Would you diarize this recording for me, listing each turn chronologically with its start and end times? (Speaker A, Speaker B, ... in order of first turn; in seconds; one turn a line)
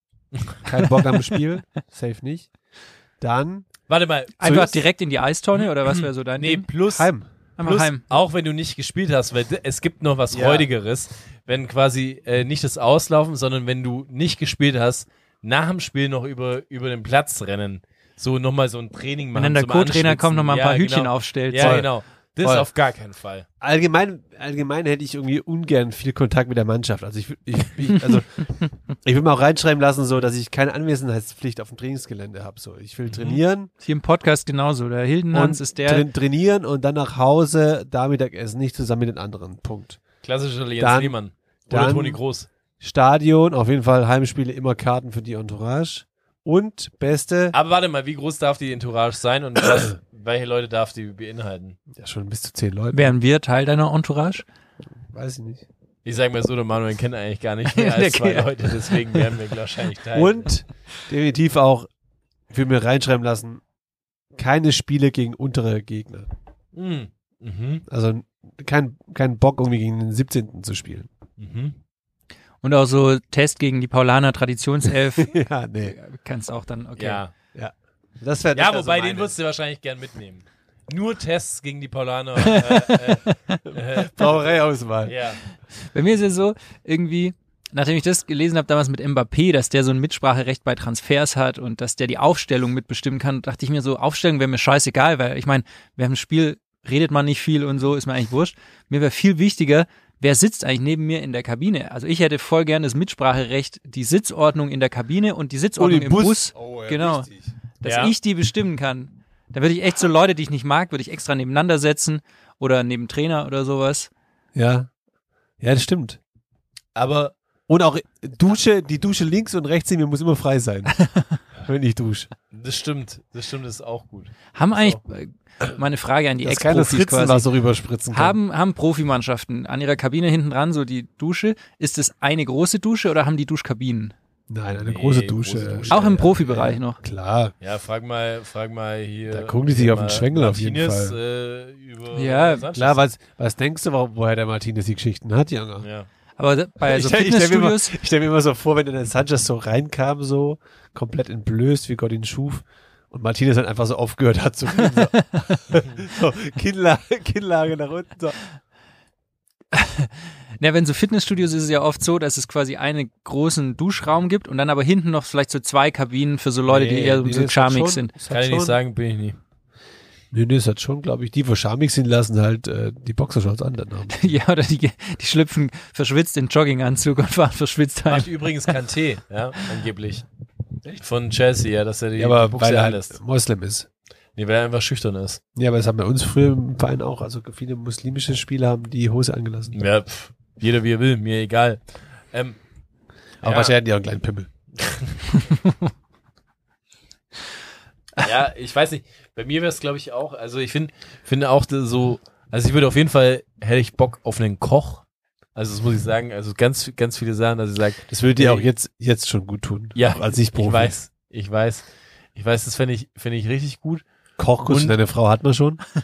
Speaker A: 0.3-0.6
Speaker B: 0.6-2.5
Speaker B: 3.2-3.7
Speaker A: 3.9-4.4
Speaker C: 4.4-6.7
Speaker B: 4.4-4.8
Speaker A: 5.6-7.1
Speaker B: 6.9-7.3
Speaker C: 7.6-8.1
Speaker A: 7.6-23.4
Speaker B: 10.3-10.7
Speaker C: 19.3-21.8
Speaker B: 21.6-21.9
Speaker B: 23.6-33.7
Speaker A: 33.0-33.4
Speaker C: 33.8-36.0
Speaker B: 35.3-40.0
Speaker A: 40.2-42.5
Speaker B: 40.8-41.1
Speaker B: 41.7-42.2
Speaker B: 42.8-47.5
Speaker A: 47.5-51.8
Speaker B: 51.9-53.1
Speaker C: 52.9-54.4
Speaker B: 55.0-55.6
Speaker A: 56.0-60.5
Speaker C: 57.6-59.3
Speaker B: 60.1-61.9
Speaker B: 62.5-63.6
Speaker B: 64.4-66.3
Speaker A: 66.7-67.8
Speaker B: 67.9-71.1
Speaker A: 71.4-71.8
Speaker C: 72.6-77.2
Speaker B: 75.2-76.0
Speaker A: 77.0-77.3
Speaker B: 77.5-79.3
Speaker A: 78.5-84.5
Speaker C: 82.5-83.6
Speaker B: 84.1-85.1
Speaker A: 85.0-85.4
Speaker C: 85.8-107.3
Speaker B: 105.8-107.5
Speaker C: 107.8-114.1
Speaker A: 107.8-108.1
Speaker B: 114.5-114.9
Speaker B: 115.6-116.2
Speaker A: 116.9-117.3
Speaker B: 117.7-120.9
Speaker B: 121.6-122.3
Speaker A: 122.5-125.0
Speaker C: 124.5-127.5
Speaker B: 126.4-128.4
Speaker C: 128.1-134.1
Speaker B: 134.5-137.5
Speaker A: 134.8-136.4
Speaker C: 135.9-137.0
Speaker A: 137.6-143.0
Speaker B: 139.3-141.2
Speaker C: 142.1-142.7
Speaker B: 142.7-145.9
Speaker A: 145.8-146.1
Speaker C: 146.4-147.9
Speaker B: 146.8-158.4
Speaker C: 159.7-168.1
Speaker B: 166.7-168.8
Speaker A: 168.3-169.4
Speaker B: 170.3-174.3
Speaker C: 174.1-178.7
Speaker A: 178.1-180.2
Speaker A: 180.9-183.2
Speaker B: 182.2-183.9
Speaker A: 184.4-185.4
Speaker B: 185.6-189.8
Speaker A: 189.7-191.8
Speaker A: 192.3-192.6
Speaker B: 193.4-194.5
Speaker A: 193.4-193.7
Speaker A: 194.8-195.1
Speaker A: 198.2-205.1
Speaker A: 205.6-208.7
Speaker B: 208.1-210.9
Speaker A: 209.9-214.0
Speaker B: 214.4-215.8
Speaker A: 214.6-214.9